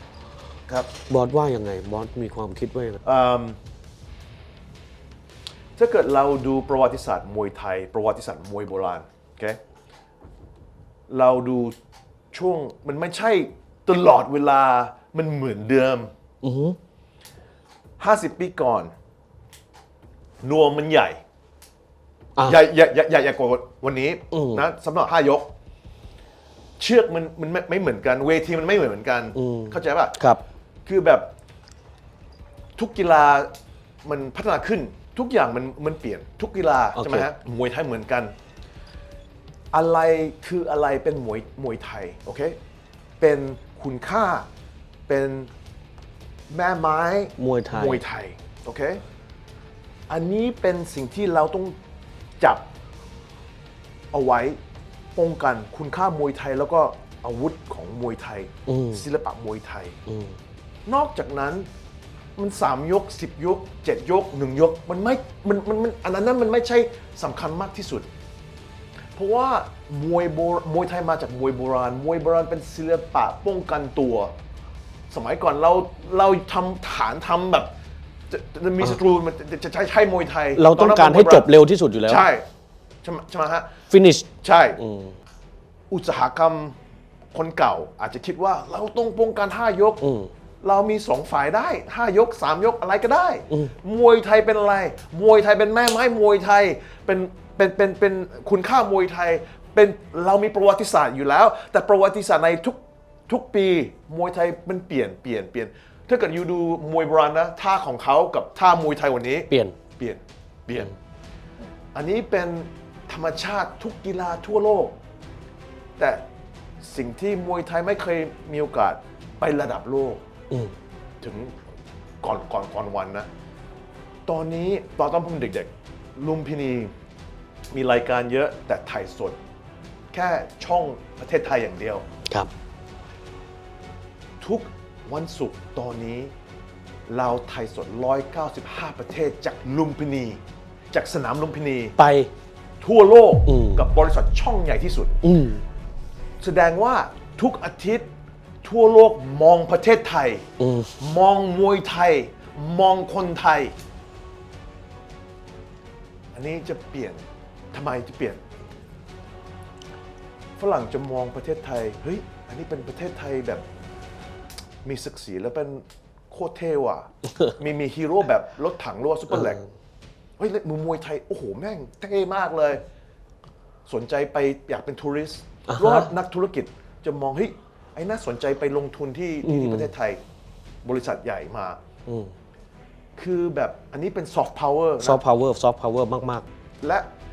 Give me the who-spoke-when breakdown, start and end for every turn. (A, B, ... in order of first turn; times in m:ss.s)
0:01.1-0:03.0 A
0:03.0-0:03.6 B
0:05.8-0:09.6 B
0:11.1-0:11.8 B
0:12.3-0:16.1 B
0:16.4-0:16.8 A
0:18.0-0:18.9 B
0:20.4-0:21.2 B
0:22.4-0:25.5 B
0:24.3-0:24.6 A
0:26.8-0:30.2 B
0:29.4-0:30.4 A
0:30.9-0:31.3 B
0:32.8-0:33.5 B
0:34.0-0:38.3 B
0:37.0-0:37.3 A
0:39.7-0:42.6 B
0:43.2-0:44.5 B
0:45.1-0:45.5 B
0:46.5-0:49.0 B
0:47.4-0:48.0 A
0:50.1-0:51.8 B
0:52.4-0:52.6 B
0:54.1-0:54.6 B
0:55.2-1:00.0 B
0:58.7-0:59.0 A
1:00.1-1:00.4 A
1:00.9-1:01.7 B
1:02.4-1:08.1 B
1:09.2-1:14.3 B
1:15.1-1:17.7 B
1:18.3-1:21.5 B
1:20.6-1:22.2 A
1:22.0-1:22.5 B
1:23.0-1:23.8 B
1:23.9-1:25.2 A
1:24.4-1:24.8 B
1:25.9-1:26.8 B
1:27.3-1:30.0 B
1:30.0-1:30.3 A
1:30.6-1:50.9 B
1:49.5-1:49.8 A
1:51.9-1:55.0 B
1:56.0-1:56.2 B
1:56.8-2:00.2 B
2:01.2-2:01.6 B
2:02.2-2:03.3 B
2:04.3-2:06.9 B
2:07.7-2:09.4 B
2:10.1-2:12.1 B
2:14.4-2:16.3 B
2:17.1-2:22.0 B
2:22.0-2:22.3 A
2:22.8-2:25.2 B
2:23.5-2:23.8 A
2:25.2-2:25.6 A
2:26.4-2:28.1 B
2:28.6-2:33.8 B
2:30.6-2:31.0 A
2:36.3-2:38.4 B
2:40.6-2:43.6 B
2:44.8-2:49.6 B
2:50.4-2:52.8 B
2:53.9-3:00.2 B
2:55.7-2:56.1 A
2:59.4-2:59.9 A
3:00.8-3:01.8 B
3:02.1-3:02.3 A
3:03.2-3:05.2 B
3:05.0-3:06.5 A
3:06.8-3:07.1 B